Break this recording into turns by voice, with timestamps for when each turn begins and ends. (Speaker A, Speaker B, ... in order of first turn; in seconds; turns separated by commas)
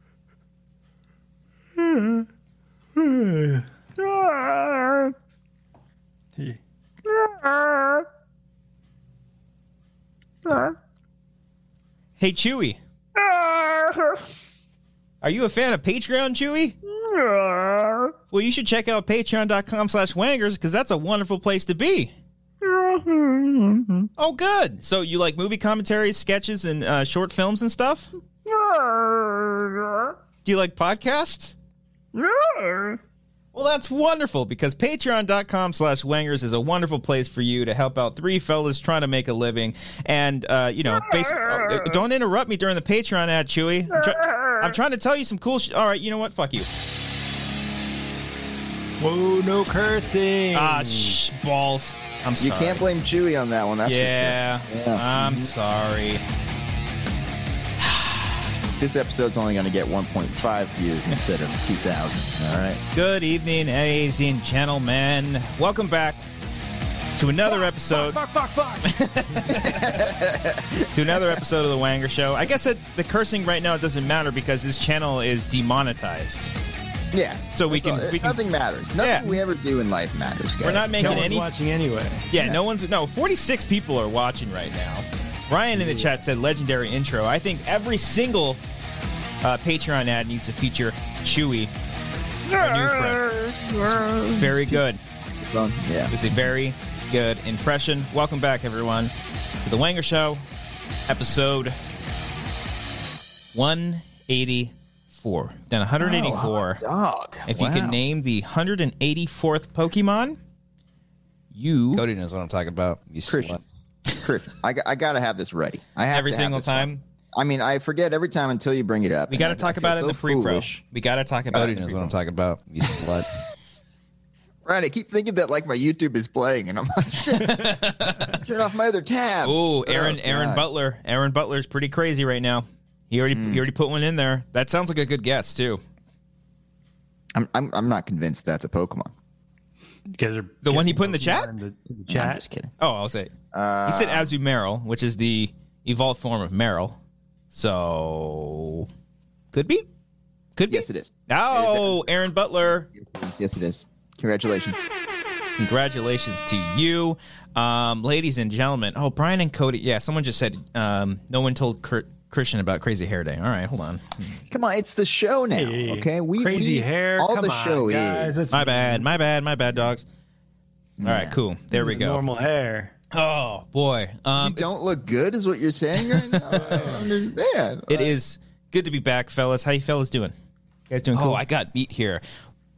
Speaker A: 1.8-2.2, Speaker A: 3.0-5.0, Speaker B: 12.2-12.8, Speaker C: 13.3-13.9, Speaker B: 15.2-16.7, Speaker C: 17.1-18.1, Speaker B: 18.3-22.1, Speaker C: 22.6-24.1, Speaker B: 24.2-28.1, Speaker C: 28.5-30.1, Speaker B: 30.4-31.5, Speaker C: 32.1-33.0, Speaker B: 33.5-46.7, Speaker A: 44.2-44.6, Speaker A: 49.0-51.2, Speaker B: 50.5-52.8, Speaker C: 52.4-55.5, Speaker B: 53.8-56.2, Speaker B: 57.8-58.4, Speaker C: 58.8-62.8, Speaker B: 62.9-66.2, Speaker B: 67.2-68.2, Speaker A: 67.9-69.3, Speaker B: 68.8-70.1, Speaker C: 69.5-71.4, Speaker B: 70.8-76.5, Speaker C: 77.1-81.3, Speaker B: 77.5-78.4, Speaker B: 79.0-79.3, Speaker B: 80.6-81.5, Speaker A: 81.0-82.3, Speaker B: 82.3-88.6, Speaker A: 85.8-86.0, Speaker B: 89.4-91.7, Speaker B: 92.5-95.0, Speaker C: 92.5-94.8, Speaker C: 95.4-96.1, Speaker B: 96.1-99.1, Speaker B: 99.6-100.4, Speaker B: 101.1-101.8, Speaker B: 103.5-106.8, Speaker C: 106.0-108.0, Speaker B: 107.5-110.4, Speaker B: 111.5-112.0, Speaker D: 111.9-113.6, Speaker C: 113.3-113.6, Speaker C: 114.2-120.8, Speaker B: 116.1-117.0, Speaker B: 119.3-122.1, Speaker C: 121.5-122.1, Speaker D: 122.0-123.2, Speaker C: 124.6-130.7, Speaker B: 127.3-128.4, Speaker B: 129.4-135.8, Speaker C: 133.3-133.6, Speaker C: 137.3-139.1, Speaker A: 140.1-142.4, Speaker B: 140.6-141.5, Speaker C: 142.1-142.7, Speaker B: 142.8-143.3, Speaker C: 143.5-144.3, Speaker B: 143.9-147.0, Speaker B: 147.5-148.9, Speaker B: 149.5-149.8, Speaker B: 150.6-152.9, Speaker C: 150.7-152.0, Speaker C: 152.7-154.8, Speaker B: 155.6-164.4, Speaker C: 164.5-168.4, Speaker A: 165.6-169.1, Speaker B: 168.5-170.0, Speaker C: 171.0-171.4, Speaker B: 171.0-172.2, Speaker A: 171.7-172.9, Speaker B: 173.1-174.7, Speaker C: 174.3-178.1, Speaker B: 176.0-176.8, Speaker A: 176.7-177.0, Speaker B: 177.9-180.3, Speaker B: 180.9-182.2